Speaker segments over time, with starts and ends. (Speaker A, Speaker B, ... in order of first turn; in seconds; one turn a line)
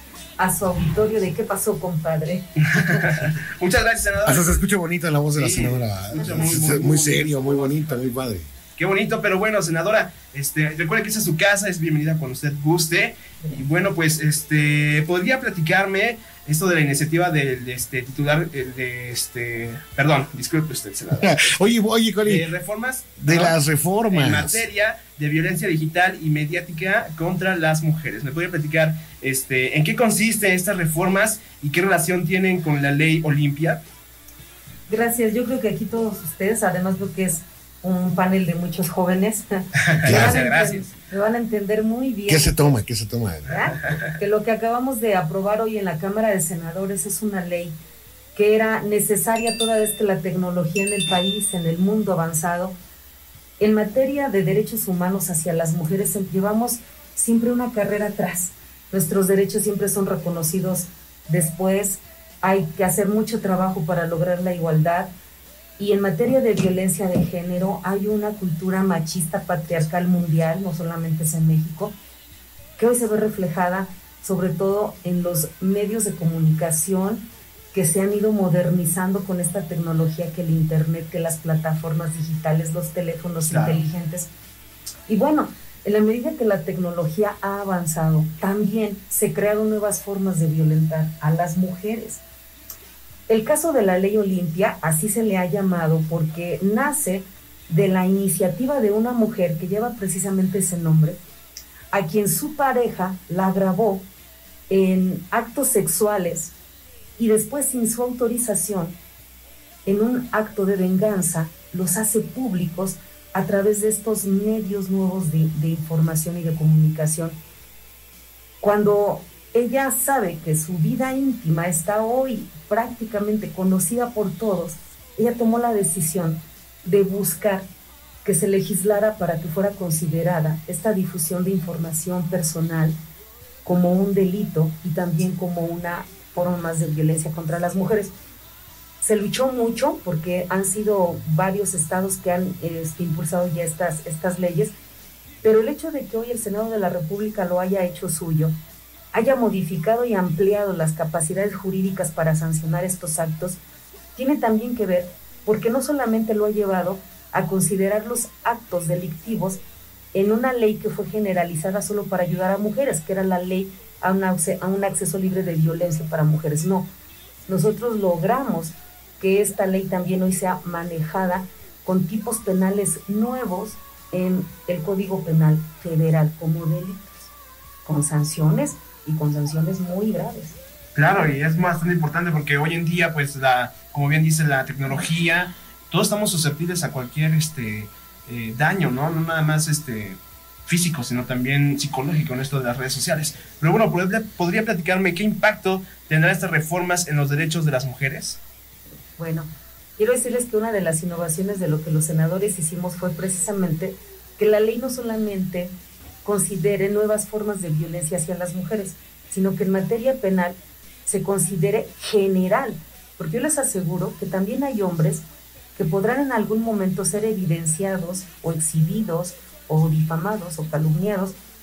Speaker A: 0.4-2.5
Speaker B: 2.7-4.6
Speaker C: 4.2-8.5
Speaker B: 5.3-8.2
Speaker B: 8.8-21.4
Speaker C: 21.2-22.5
Speaker B: 22.2-23.6
Speaker C: 23.2-24.7
Speaker B: 24.1-33.8
Speaker A: 34.9-42.8
Speaker B: 39.9-40.9
Speaker C: 40.1-40.4
Speaker C: 42.3-43.8
Speaker A: 43.5-47.8
Speaker A: 48.4-52.8
Speaker A: 53.6-65.1
Speaker A: 65.8-72.0
Speaker A: 72.8-84.3
Speaker B: 83.5-83.8
Speaker A: 85.1-92.2
Speaker A: 93.3-101.2
Speaker A: 101.9-104.1
Speaker A: 104.7-106.5
Speaker A: 107.2-109.0
Speaker A: 109.9-117.4
Speaker A: 118.6-127.7
Speaker A: 128.2-133.0
Speaker A: 133.7-138.1
Speaker A: 139.0-144.7
Speaker A: 145.4-148.6
Speaker A: 149.1-153.6
Speaker A: 154.2-159.6
Speaker A: 160.1-166.9
Speaker A: 167.5-177.0
Speaker A: 177.8-180.6
Speaker B: 180.9-198.4
Speaker A: 199.2-205.7
Speaker A: 206.2-221.4